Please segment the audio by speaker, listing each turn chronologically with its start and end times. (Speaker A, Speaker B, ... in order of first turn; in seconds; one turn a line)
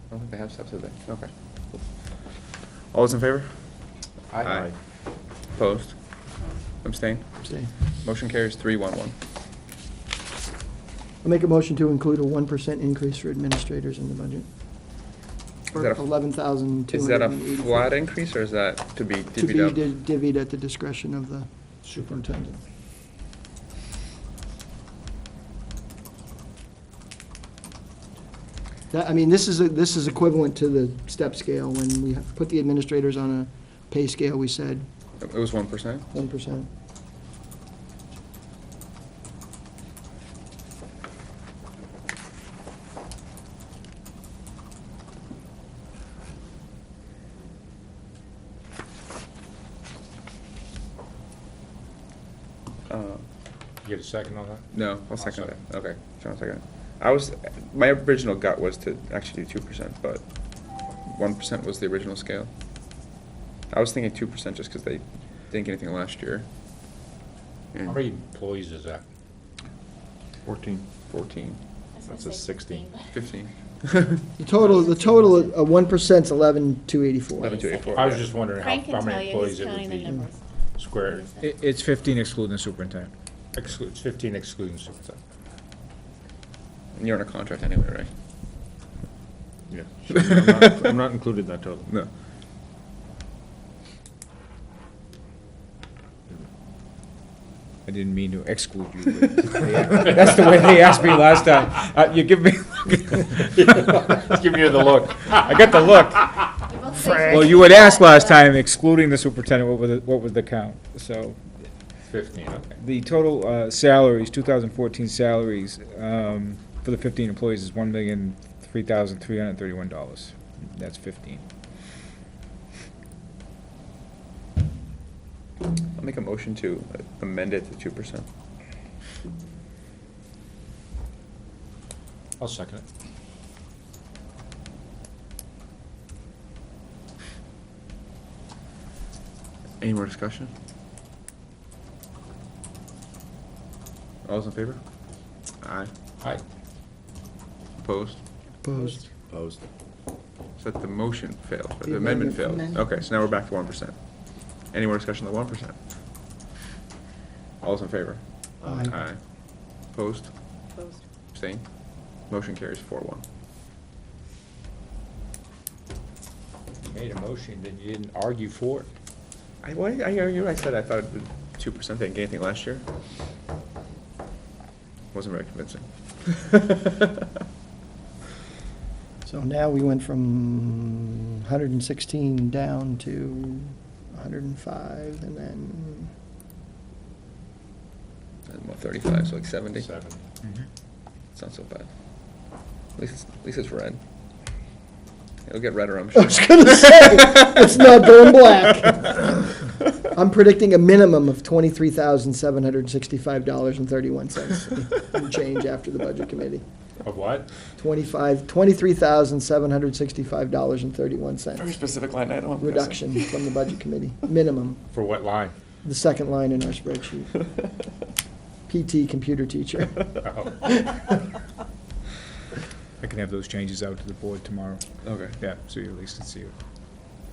Speaker A: 0.1-1.3
Speaker A: 2.9-3.5
Speaker B: 4.3-4.7
Speaker A: 4.4-4.7
Speaker A: 5.5-6.0
Speaker A: 6.8-7.2
Speaker C: 7.4-7.7
Speaker A: 8.0-9.1
Speaker C: 11.2-14.5
Speaker C: 15.7-18.0
Speaker A: 15.7-16.0
Speaker A: 16.9-19.8
Speaker C: 19.4-22.6
Speaker C: 28.9-34.8
Speaker A: 35.2-36.0
Speaker C: 36.1-36.7
Speaker A: 52.9-53.2
Speaker B: 53.8-55.5
Speaker A: 54.7-60.2
Speaker A: 61.0-62.5
Speaker A: 63.7-66.5
Speaker A: 67.7-68.0
Speaker B: 67.8-69.0
Speaker D: 70.5-70.9
Speaker A: 71.0-71.6
Speaker E: 71.9-73.1
Speaker B: 72.1-72.9
Speaker A: 73.1-74.2
Speaker C: 74.4-77.6
Speaker B: 74.6-75.3
Speaker A: 77.4-78.3
Speaker B: 77.9-80.2
Speaker E: 78.6-81.5
Speaker B: 80.7-81.3
Speaker F: 81.4-83.1
Speaker B: 83.5-85.2
Speaker A: 87.0-88.1
Speaker D: 89.7-91.9
Speaker A: 90.1-90.9
Speaker F: 97.8-103.5
Speaker B: 103.5-107.4
Speaker E: 106.7-108.3
Speaker F: 107.2-111.4
Speaker B: 112.0-112.7
Speaker F: 112.8-121.4
Speaker A: 126.0-128.2
Speaker B: 132.4-132.8
Speaker A: 139.8-140.5
Speaker A: 144.2-144.8
Speaker A: 145.6-145.9
Speaker A: 147.8-148.2
Speaker C: 148.6-149.1
Speaker A: 150.6-154.1
Speaker C: 151.8-152.9
Speaker A: 154.7-155.8
Speaker A: 157.6-159.2
Speaker C: 158.6-159.0
Speaker A: 159.9-160.3
Speaker A: 161.3-161.6
Speaker A: 162.3-163.2
Speaker B: 166.8-168.9
Speaker A: 169.6-172.8
Speaker A: 175.1-177.2
Speaker C: 179.2-186.1
Speaker A: 188.5-189.9
Speaker B: 189.7-190.2
Speaker A: 191.3-191.9
Speaker A: 193.0-194.0
Speaker A: 195.5-196.7
Speaker C: 196.1-206.6
Speaker B: 207.0-207.5
Speaker C: 207.8-211.8
Speaker A: 211.6-213.3
Speaker C: 212.6-214.8
Speaker B: 214.9-215.5
Speaker C: 215.8-217.4
Speaker C: 218.7-220.2
Speaker B: 220.2-220.7
Speaker F: 223.0-224.8
Speaker A: 225.0-225.3
Speaker F: 225.4-226.5